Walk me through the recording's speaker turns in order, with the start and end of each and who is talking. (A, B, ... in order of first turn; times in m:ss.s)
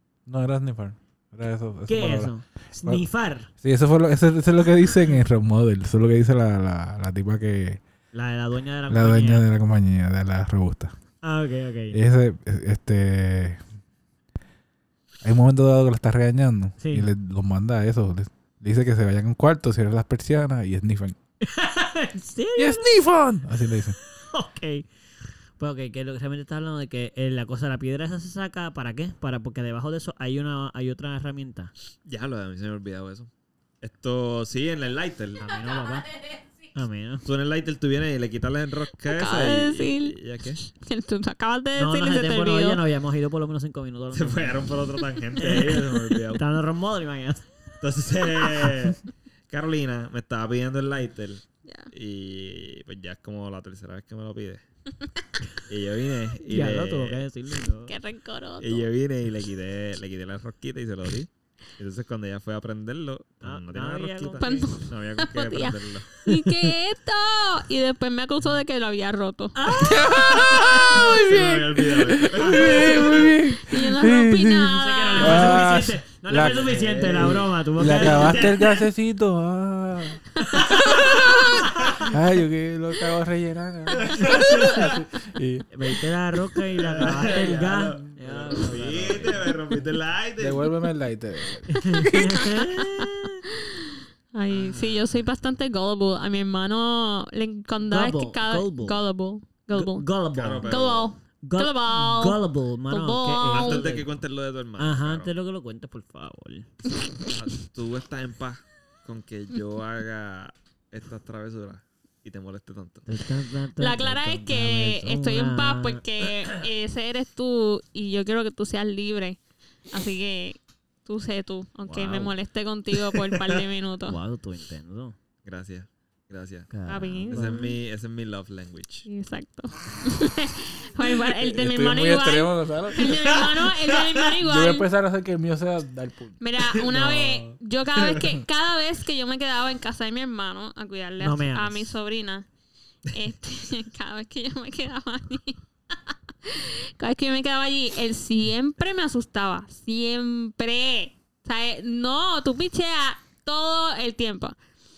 0:00.3-0:03.0 A
0:01.9-0:03.5 B
0:03.6-0:07.8 A
0:08.1-0:09.5 B
0:08.9-0:10.9 A
0:11.2-0:12.0 B
0:11.9-0:13.6 A
0:15.2-0:21.2 A
0:16.8-0:17.1 B
0:21.4-0:23.0 B
0:22.6-0:24.0 A
0:24.1-0:24.9 B
0:25.6-0:31.7 B
0:32.0-0:33.3 C
0:33.8-0:35.4 C
0:35.4-0:36.1 B
0:36.7-0:37.3 B
0:37.2-0:40.6 C
0:39.1-0:42.8 D
0:41.8-0:44.7 B
0:44.1-0:46.4 C
0:45.4-0:47.5 B
0:47.8-0:54.6 C
0:55.7-0:57.2 C
0:56.4-0:58.0 B
0:57.9-0:58.9 D
0:58.6-1:06.3 C
1:03.4-1:04.7 B
1:04.4-1:11.1 D
1:09.6-1:10.9 B
1:09.8-1:25.9 A
1:10.9-1:13.3 C
1:13.0-1:15.7 D
1:14.8-1:18.6 B
1:16.4-1:18.5 C
1:20.4-1:22.0 B
1:23.9-1:25.0 C
1:25.7-1:29.5 B
1:26.8-1:30.7 C
1:30.4-1:32.4 A
1:31.7-1:33.3 B
1:32.6-1:40.1 D
1:34.5-1:35.2 C
1:37.9-1:39.0 B
1:39.7-1:40.8 B
1:40.4-1:41.1 C
1:40.6-1:43.9 D
1:41.4-1:44.1 B
1:43.5-1:45.3 C
1:44.8-1:46.7 B
1:47.3-1:53.1 C
1:53.1-1:56.7 B
1:53.8-1:59.4 D
1:59.9-2:04.2 D
2:01.9-2:02.3 B
2:03.3-2:03.6 C
2:04.1-2:05.2 B
2:05.4-2:09.1 C
2:06.7-2:07.6 B
2:06.9-2:07.8 D
2:09.1-2:14.9 D
2:11.3-2:13.3 A
2:13.0-2:14.2 C
2:14.4-2:16.4 A
2:16.4-2:22.5 D
2:16.8-2:18.2 C
2:21.2-2:22.0 B
2:23.1-2:25.6 D
2:26.4-2:34.6 D